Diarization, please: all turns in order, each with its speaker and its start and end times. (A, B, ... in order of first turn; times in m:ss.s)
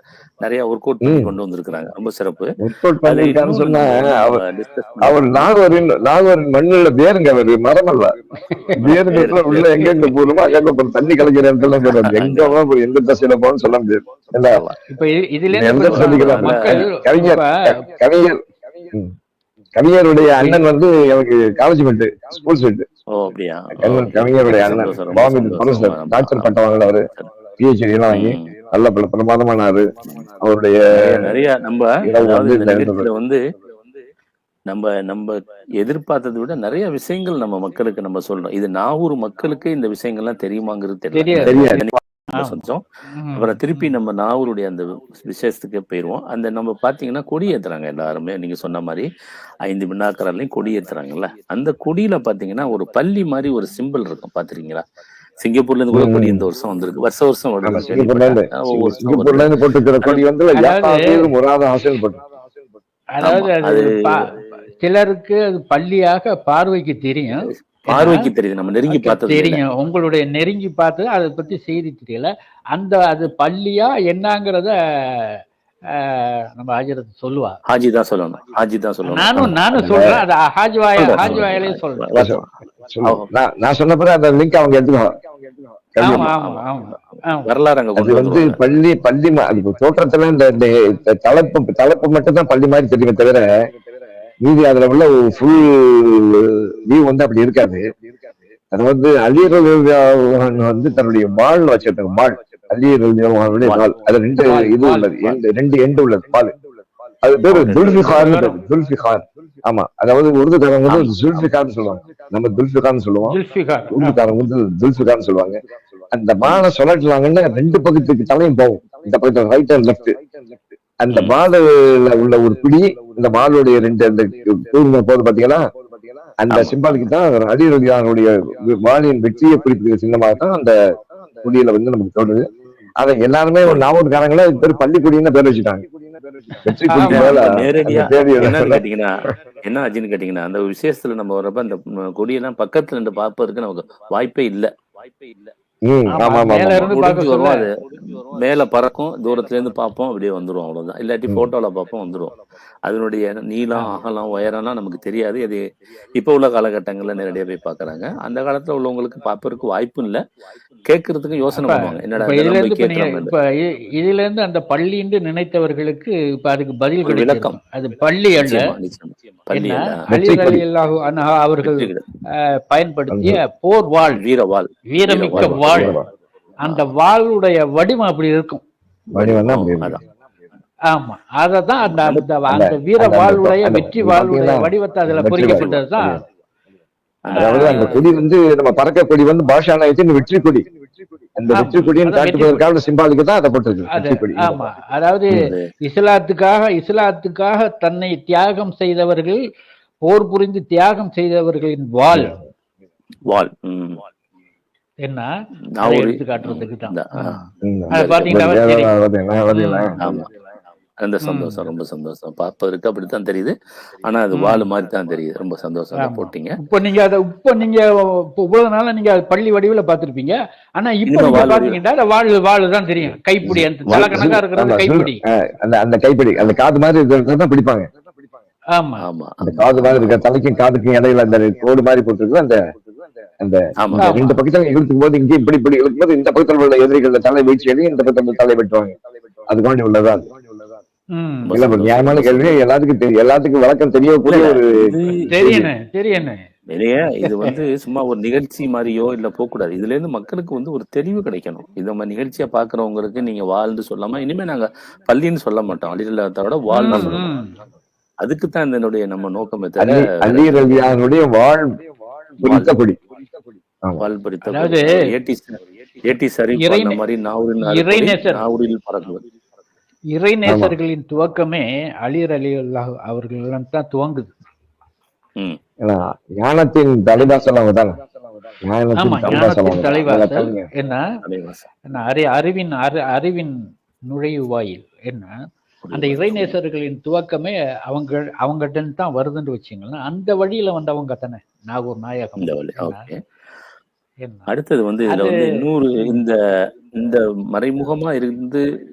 0:00.4-0:02.5 A
0:01.0-0:01.3 B
0:02.6-0:04.4 B
0:03.0-0:05.5 A
0:05.0-0:08.1 B
0:08.8-0:14.6 B
0:08.8-0:10.2 A
0:11.8-0:12.6 A
0:14.9-0:17.5 C
0:15.5-0:18.4 B
0:15.8-0:16.7 A
0:19.8-0:22.8 B
0:20.3-0:20.6 C
0:23.1-0:26.5 A
0:23.8-0:27.1 B
0:27.6-0:29.8 B
0:28.1-0:28.5 A
0:30.4-0:31.2 B
0:30.9-0:33.4 A
0:32.0-0:33.1 B
0:34.7-0:42.8 A
0:41.1-0:41.8 C
0:41.4-0:41.9 B
0:43.1-0:44.0 C
0:43.3-0:49.0 A
0:49.6-0:54.8 A
0:55.4-1:00.2 A
0:55.9-0:56.4 B
0:57.6-1:02.2 B
1:00.6-1:01.0 C
1:03.1-1:04.2 C
1:03.2-1:03.9 A
1:04.8-1:08.3 C
1:07.4-1:09.6 A
1:08.9-1:14.7 C
1:16.1-1:17.5 C
1:17.7-1:19.4 A
1:19.0-1:22.2 C
1:19.4-1:20.2 B
1:21.0-1:22.5 A
1:22.1-1:25.1 B
1:25.9-1:26.3 B
1:26.0-1:27.5 C
1:26.0-1:28.6 A
1:28.0-1:33.5 B
1:34.4-1:37.8 B
1:38.7-1:46.5 B
1:43.6-1:43.9 A
1:44.4-1:45.1 C
1:45.0-1:45.4 A
1:47.2-1:53.4 B
1:47.5-1:48.5 A
1:48.0-1:48.6 C
1:50.9-1:51.4 A
1:53.3-1:54.2 C
1:53.9-1:55.5 B
1:56.1-2:00.1 B
2:01.0-2:05.6 B
2:06.4-2:10.7 B
2:06.5-2:06.8 A
2:11.4-2:12.4 B
2:13.0-2:15.8 B
2:16.6-2:18.8 B
2:16.9-2:17.4 C
2:17.1-2:25.5 A
2:25.9-2:26.9 B
2:26.1-2:27.7 C
2:26.9-2:35.6 A
2:36.2-2:40.2 A
2:40.9-2:43.3 A
2:41.5-2:48.7 C
2:47.0-2:47.6 A
2:48.4-2:50.0 A
2:49.5-2:51.9 C
2:50.1-2:50.6 B
2:51.6-2:52.0 A
2:52.6-2:54.2 C
2:53.1-2:53.4 B
2:54.2-2:56.0 A
2:54.9-2:55.9 C
2:55.3-2:56.0 B
2:56.6-2:58.6 C
2:59.1-3:00.0 B
2:59.2-3:00.0 A
3:00.9-3:06.2 C
3:01.8-3:02.3 A
3:02.5-3:06.2 B
3:05.4-3:05.8 A
3:07.2-3:08.1 A
3:07.4-3:10.6 B
3:07.4-3:08.0 C
3:11.4-3:14.6 B
3:11.5-3:12.6 C
3:13.9-3:19.4 C
3:20.0-3:22.3 C
3:23.3-3:24.0 A
3:25.0-3:25.3 C
3:25.8-3:27.4 A
3:25.8-3:28.9 C
3:27.6-3:30.2 B
3:27.9-3:28.4 A
3:29.5-3:29.9 C
3:30.0-3:30.3 A
3:31.0-3:33.5 A
3:31.2-3:31.6 C
3:34.0-3:36.6 A
3:34.3-3:34.7 C
3:36.0-3:45.2 C
3:41.1-3:41.8 A
3:43.4-3:47.8 B
3:43.8-3:44.3 A
3:48.7-3:49.0 C
3:49.0-3:50.2 A
3:49.4-3:52.6 B
3:53.4-3:58.9 B
3:53.8-3:54.2 A
3:54.0-3:54.4 C
3:59.5-4:00.2 B
4:01.1-4:01.5 C
4:01.4-4:02.6 A
4:01.5-4:04.8 B
4:04.2-4:05.2 A
4:05.3-4:06.4 C
4:05.4-4:05.7 B
4:06.7-4:17.3 A
4:07.2-4:07.5 C
4:16.7-4:17.5 C
4:18.2-4:20.9 A
4:19.8-4:21.7 B
4:22.4-4:22.8 A
4:22.4-4:23.0 B
4:24.0-4:29.2 A
4:24.4-4:24.9 C
4:26.6-4:27.0 C
4:27.6-4:28.4 C
4:30.1-4:34.3 C
4:30.4-4:30.7 B
4:35.8-4:37.9 B
4:38.6-4:40.6 B
4:39.0-4:41.1 C
4:41.2-4:41.7 A
4:41.9-4:43.5 C
4:44.1-4:45.3 C
4:45.8-4:46.5 A
4:45.9-4:53.1 C
4:52.4-4:53.1 A
4:54.2-4:54.5 C
4:54.5-4:56.4 A
4:55.1-4:56.2 C
4:57.0-4:58.6 A